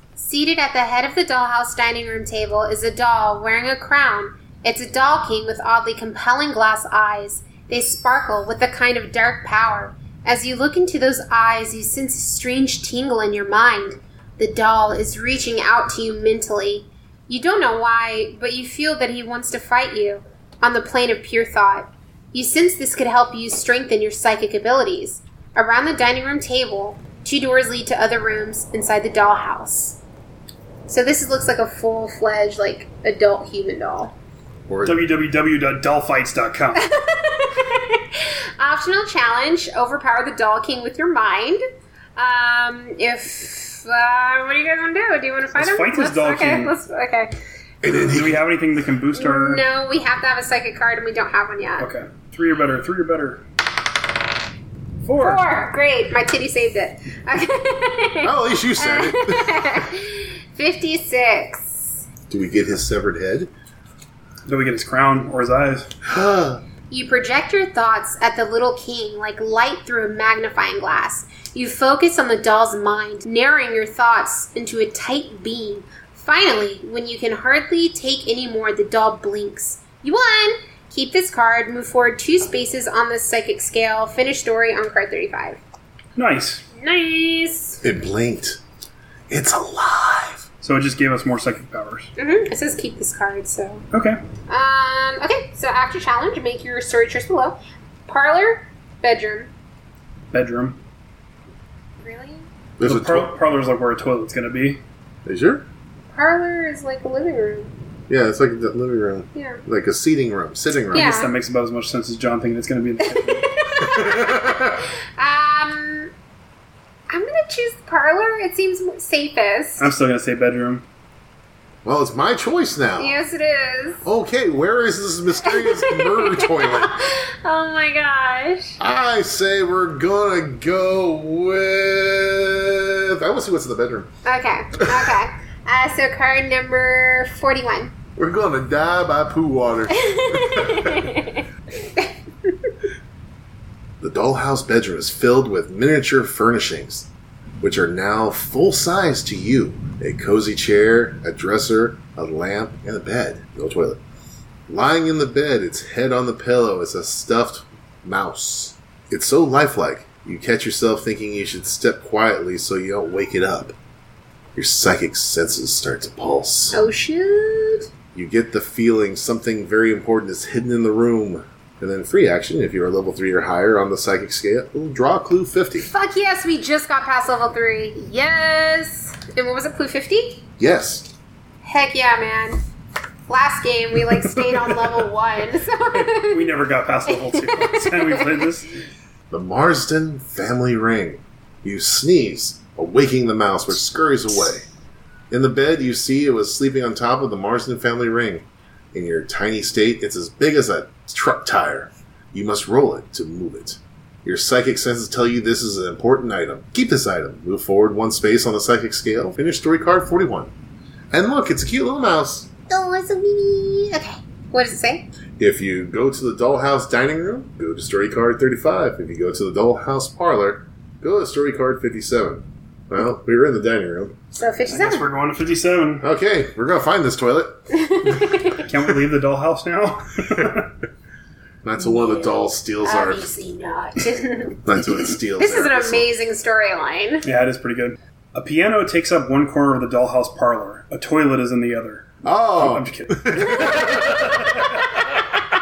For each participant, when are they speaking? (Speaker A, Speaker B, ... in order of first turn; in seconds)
Speaker A: 0.2-30.0, 30.9-34.1, 36.8-41.6, 42.2-47.3, 49.1-51.9, 55.2-62.0, 66.9-85.6, 86.7-87.8, 92.2-93.8, 94.5-99.5, 102.0-102.5, 106.1-107.7, 109.3-109.6, 110.9-111.3, 113.0-116.1, 117.1-119.9, 123.0-124.0, 125.4-128.8, 134.2-137.9, 139.9-142.5, 166.7-167.9, 175.8-180.4, 181.6-182.6, 183.3-186.5, 187.1-188.4, 212.7-215.1, 224.3-225.1, 227.7-228.7, 231.8-237.2
Speaker B: 34.7-35.0, 47.8-48.4, 58.2-59.8, 62.3-63.5, 66.0-66.6, 87.8-88.6, 89.3-90.5, 102.8-103.3, 105.2-105.6, 108.1-111.2, 113.8-114.8, 121.8-123.1, 124.0-126.9, 128.8-134.1, 134.7-135.2, 138.2-141.1, 144.0-147.1, 147.6-154.0, 154.7-163.7, 164.5-166.8, 168.1-175.9, 180.6-181.1, 189.3-194.7, 195.3-210.5, 211.1-212.5, 215.4-224.2, 226.0-229.0, 231.6-233.3, 234.6-236.1, 242.2-244.5
Speaker C: 34.8-36.9, 45.5-46.7, 47.9-49.6, 51.8-53.4, 55.0-55.4, 64.5-65.9, 86.2-86.6, 90.6-92.1, 93.9-94.2, 100.3-100.8, 102.8-104.8, 110.9-113.5, 119.8-120.8, 184.3-184.9, 186.1-188.7, 224.7-226.1, 228.5-230.7, 237.2-244.8